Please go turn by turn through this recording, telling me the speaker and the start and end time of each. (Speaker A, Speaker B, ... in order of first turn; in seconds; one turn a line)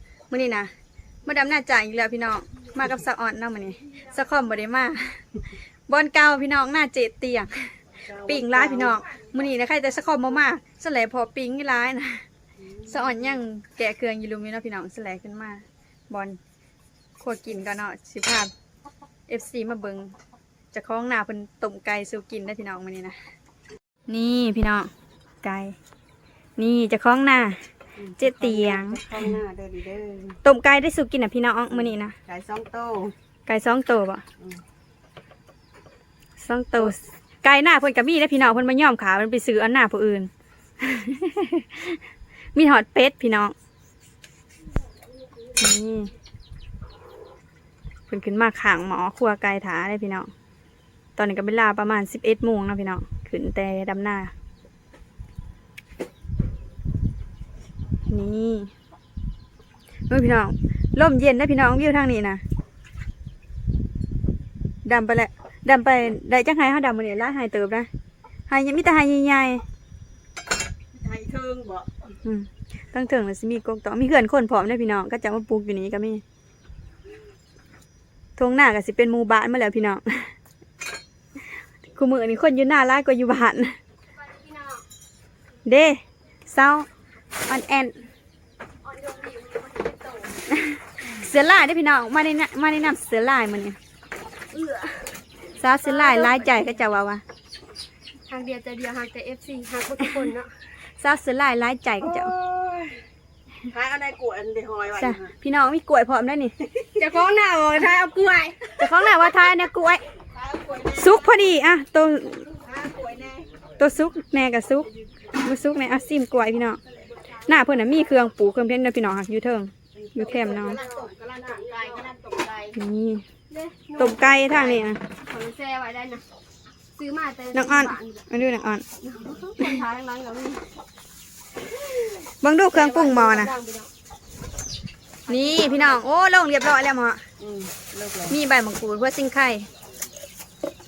Speaker A: 0.3-0.7
Speaker A: 1.2-5.4
Speaker A: 5.9-12.2
Speaker B: 8.1-9.0
Speaker B: 12.8-13.2
Speaker A: 12.8-16.4
Speaker A: 17.2-18.5
Speaker A: 19.3-20.1
Speaker A: 20.7-23.2
Speaker A: 24.1-24.9
Speaker A: 25.4-25.8
Speaker A: 26.6-27.6
Speaker B: 28.0-30.4
Speaker A: 28.2-29.3
Speaker A: 30.4-32.2
Speaker B: 31.7-33.1
Speaker A: 33.5-34.2
Speaker A: 36.4-40.3
Speaker A: 40.8-42.0
Speaker A: 42.5-43.5
Speaker A: 45.6-46.1
Speaker A: 48.1-50.3
Speaker A: 51.2-54.3
Speaker A: 58.1-58.7
Speaker A: 60.1-62.4
Speaker A: 64.8-67.9
Speaker A: 68.5-69.6
Speaker B: 70.9-71.9
Speaker A: 72.2-76.2
Speaker A: 78.4-80.3
Speaker A: 81.9-83.8
Speaker C: 84.2-84.8
Speaker A: 85.7-86.9
Speaker A: 87.5-88.0
Speaker C: 88.8-90.4
Speaker A: 90.5-93.8
Speaker C: 94.5-95.2
Speaker A: 95.6-97.2
Speaker C: 95.8-96.7
Speaker C: 98.3-100.5
Speaker A: 100.9-102.3
Speaker B: 102.2-103.0
Speaker B: 103.7-105.3
Speaker A: 105.0-106.5
Speaker C: 107.0-108.9
Speaker A: 108.8-110.0
Speaker B: 110.3-111.2
Speaker A: 110.9-112.5
Speaker B: 112.6-113.5
Speaker A: 113.8-116.8
Speaker A: 117.4-120.8
Speaker B: 120.0-122.8
Speaker C: 120.3-122.1
Speaker A: 122.7-123.2
Speaker C: 123.5-126.2
Speaker A: 124.0-125.0
Speaker C: 127.0-128.3
Speaker A: 127.5-128.8
Speaker C: 129.0-130.7
Speaker A: 132.4-133.5
Speaker C: 132.7-133.9
Speaker C: 135.3-136.0
Speaker A: 135.3-137.2
Speaker B: 137.4-138.4
Speaker A: 138.3-139.7